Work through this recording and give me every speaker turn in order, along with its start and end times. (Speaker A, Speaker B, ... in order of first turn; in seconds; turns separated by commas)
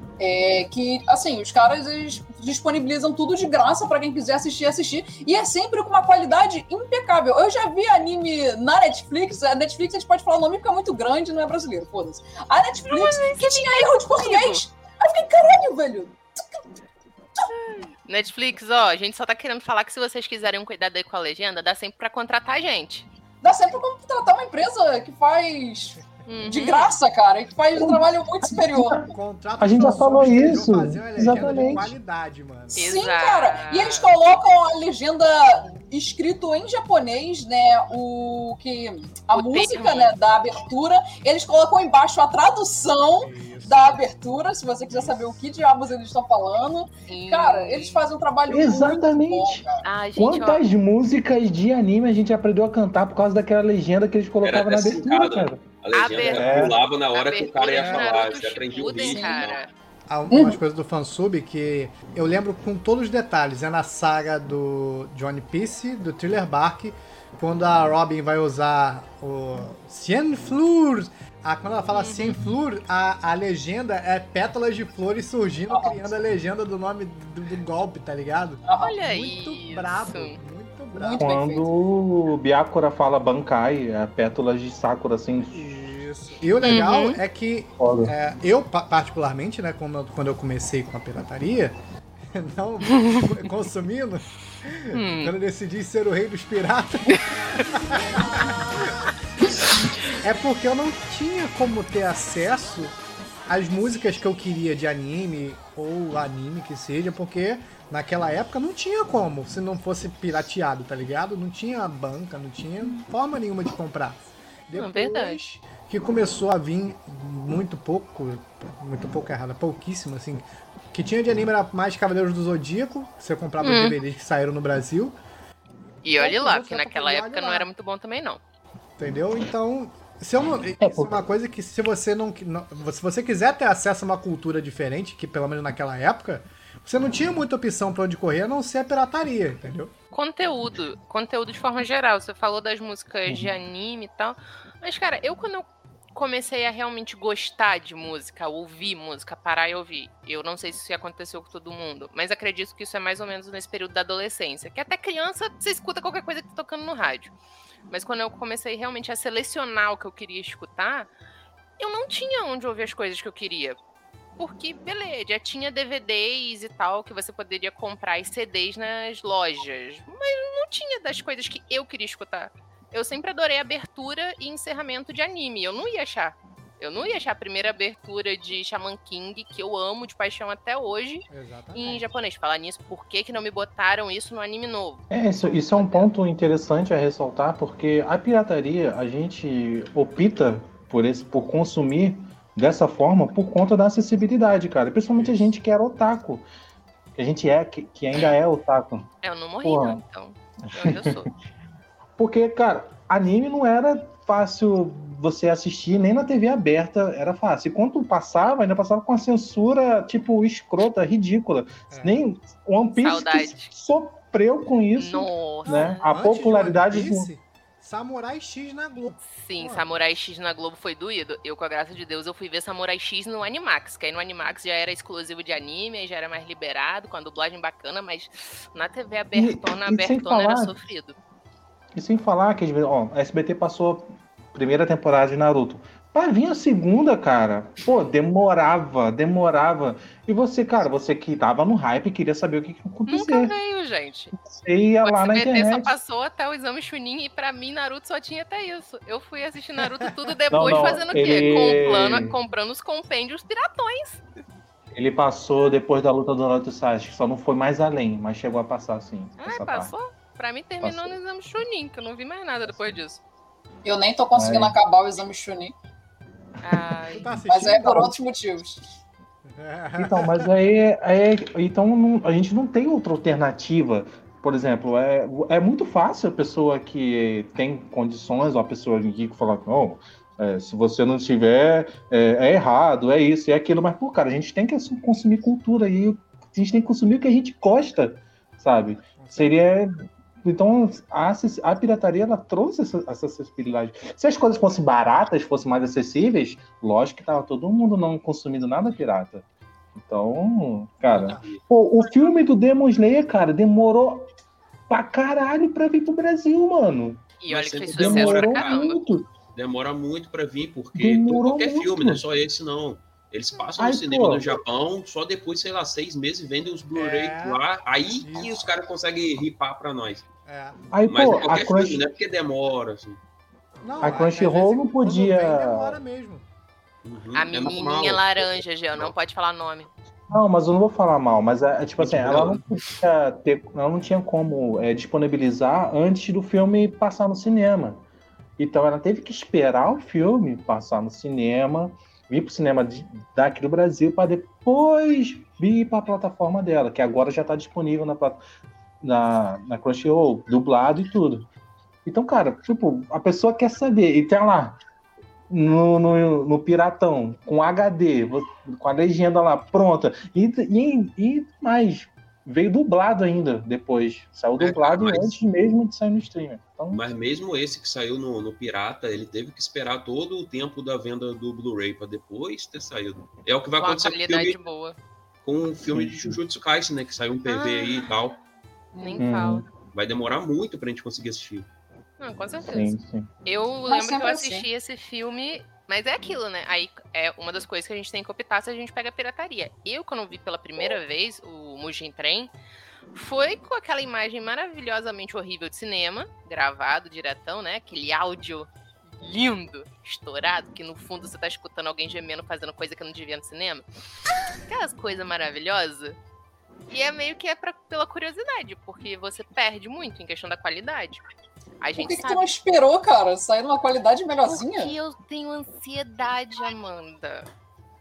Speaker A: 0.2-16.6, Speaker B: 12.9-14.6, Speaker B: 17.5-23.1, Speaker A: 23.4-29.0, Speaker B: 26.3-26.9, Speaker C: 27.8-31.9, Speaker D: 29.0-32.9, Speaker B: 32.7-34.1, Speaker A: 32.8-49.8, Speaker B: 39.3-40.1, Speaker D: 43.2-44.0, Speaker D: 44.9-45.4, Speaker B: 47.1-48.0, Speaker C: 48.5-49.6, Speaker B: 49.8-50.6, Speaker C: 50.1-55.6, Speaker E: 54.4-59.6, Speaker B: 55.9-59.7, Speaker C: 56.3-56.8, Speaker D: 57.7-58.2, Speaker A: 59.0-59.4, Speaker D: 60.1-81.3, Speaker A: 60.3-60.6, Speaker B: 71.9-72.4, Speaker A: 75.7-76.0, Speaker A: 78.7-79.0, Speaker B: 78.8-80.4, Speaker A: 80.9-81.7, Speaker C: 81.2-85.7, Speaker D: 85.5-91.8, Speaker B: 86.6-87.2, Speaker C: 87.8-88.1, Speaker D: 92.3-98.9, Speaker B: 94.9-95.3, Speaker B: 97.1-97.6, Speaker D: 100.0-102.9, Speaker D: 103.5-125.2, Speaker B: 114.7-115.4, Speaker B: 123.6-124.0, Speaker B: 126.0-128.4, Speaker D: 126.1-127.7, Speaker D: 129.0-139.9, Speaker C: 130.8-131.2, Speaker B: 140.1-157.3, Speaker B: 157.9-161.1, Speaker B: 161.8-163.8, Speaker B: 164.4-186.1, Speaker D: 181.3-182.1, Speaker C: 185.1-196.4, Speaker D: 195.2-195.5, Speaker C: 197.2-199.1, Speaker B: 199.2-201.3, Speaker C: 199.6-200.0, Speaker C: 200.7-201.2, Speaker C: 202.2-217.3, Speaker D: 211.9-212.2, Speaker B: 213.0-213.7, Speaker B: 214.9-216.0, Speaker D: 215.7-219.8, Speaker B: 219.2-231.2, Speaker C: 229.3-230.7, Speaker C: 231.9-243.5, Speaker B: 243.1-244.3, Speaker C: 244.3-246.0, Speaker B: 245.0-254.2, Speaker C: 250.5-252.4, Speaker C: 254.9-259.9, Speaker B: 259.4-263.2, Speaker C: 260.8-261.2, Speaker A: 263.8-265.7, Speaker C: 264.3-264.8, Speaker B: 266.6-267.4, Speaker D: 267.1-268.1, Speaker A: 267.5-268.8, Speaker D: 269.5-270.5, Speaker C: 270.0-304.3, Speaker D: 289.2-289.6, Speaker E: 301.1-301.6, Speaker C: 304.9-307.3, Speaker B: 307.4-309.0, Speaker E: 307.5-308.8, Speaker C: 307.9-309.3, Speaker E: 309.5-320.2, Speaker C: 310.9-312.2, Speaker C: 313.8-314.6, Speaker D: 316.9-317.6, Speaker D: 318.1-318.6, Speaker D: 320.5-320.8, Speaker C: 320.9-322.0, Speaker E: 321.1-323.2, Speaker D: 323.8-326.4, Speaker C: 324.0-326.0, Speaker E: 327.0-329.1, Speaker B: 327.4-329.9, Speaker C: 330.3-338.0, Speaker E: 332.0-332.6, Speaker C: 338.6-348.4, Speaker C: 349.0-351.5, Speaker C: 352.0-354.8, Speaker C: 355.5-367.0, Speaker E: 364.6-365.3, Speaker E: 366.9-374.6, Speaker B: 373.8-374.9, Speaker E: 375.4-378.4, Speaker C: 375.9-376.4, Speaker B: 377.4-378.2, Speaker A: 378.9-379.3, Speaker B: 379.0-379.7, Speaker C: 379.2-379.6, Speaker E: 379.9-381.7, Speaker B: 382.2-392.5, Speaker C: 382.6-383.3, Speaker A: 383.9-384.7, Speaker B: 393.1-398.7, Speaker B: 399.2-403.8, Speaker B: 404.7-406.2, Speaker B: 406.9-411.2, Speaker B: 411.8-412.4, Speaker A: 412.0-414.9, Speaker B: 414.4-417.5